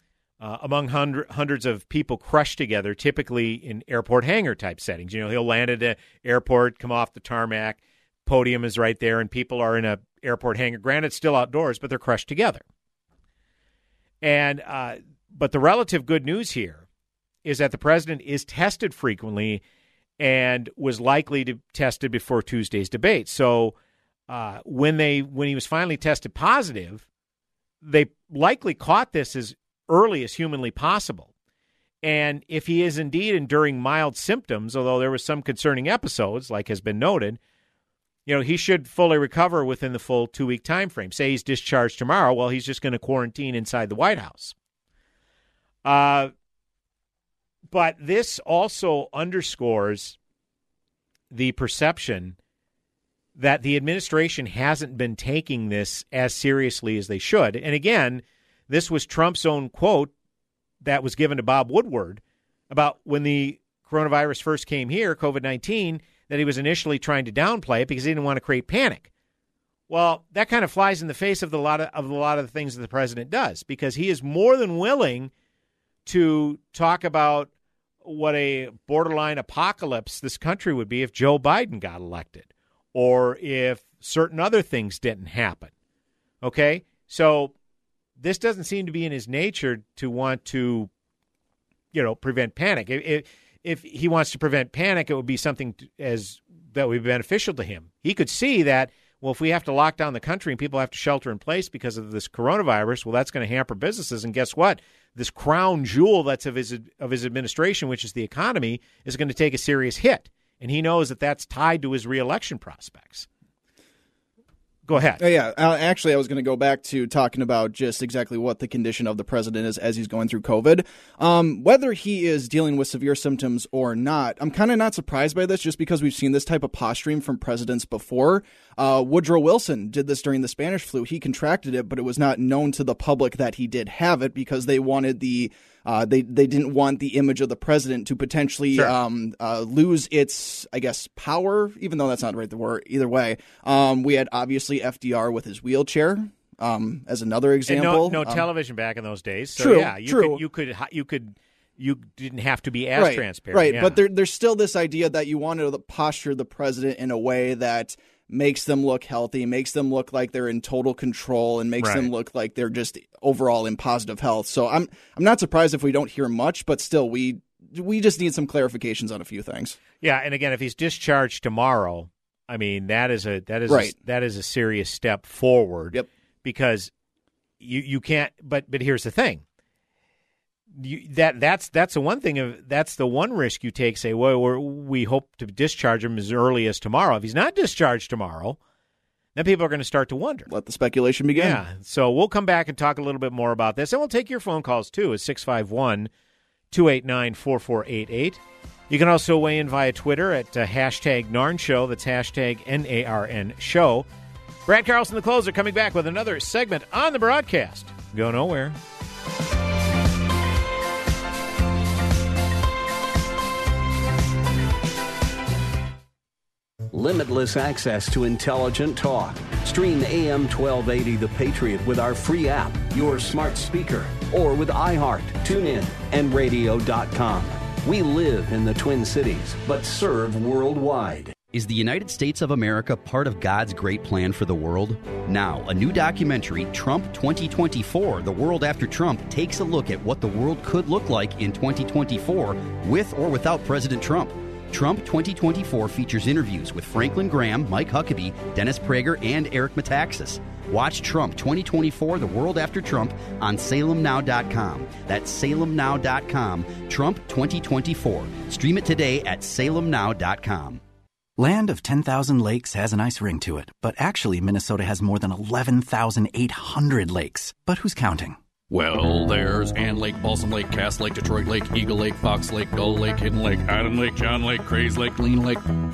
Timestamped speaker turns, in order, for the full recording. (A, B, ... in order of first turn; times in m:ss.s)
0:00.4-0:12.6 A
0:14.2-0:16.8 A
0:17.4-0:19.6 A
0:20.2-0:23.7 A
0:24.3-0:27.0 A
0:27.8-0:31.3 A
0:32.0-0:37.4 A
0:38.2-0:44.5 A
0:45.8-0:46.3 A
0:47.7-0:50.2 A
0:51.3-0:52.4 A
0:53.4-1:00.1 A
1:00.8-1:09.1 A
1:09.9-1:15.3 A
1:16.0-1:17.5 A
1:18.0-1:25.7 A
1:26.4-1:27.5 A
1:28.2-1:30.9 A
1:31.9-1:53.3 A
1:54.9-1:55.2 A
1:55.2-2:28.4 B
2:27.7-2:34.0 A
2:29.6-2:30.4 B
2:33.0-2:49.8 B
2:41.8-2:42.1 A
2:50.0-2:56.9 A
2:57.6-2:59.4 A
3:00.8-3:08.6 A
3:09.4-3:10.5 A
3:10.5-3:11.6 B
3:11.4-3:16.1 A
3:16.7-3:24.0 A
3:24.6-3:28.8 A
3:36.9-3:51.3 C
3:51.5-4:20.8 D
4:21.4-4:28.4 E
4:28.7-4:35.6 F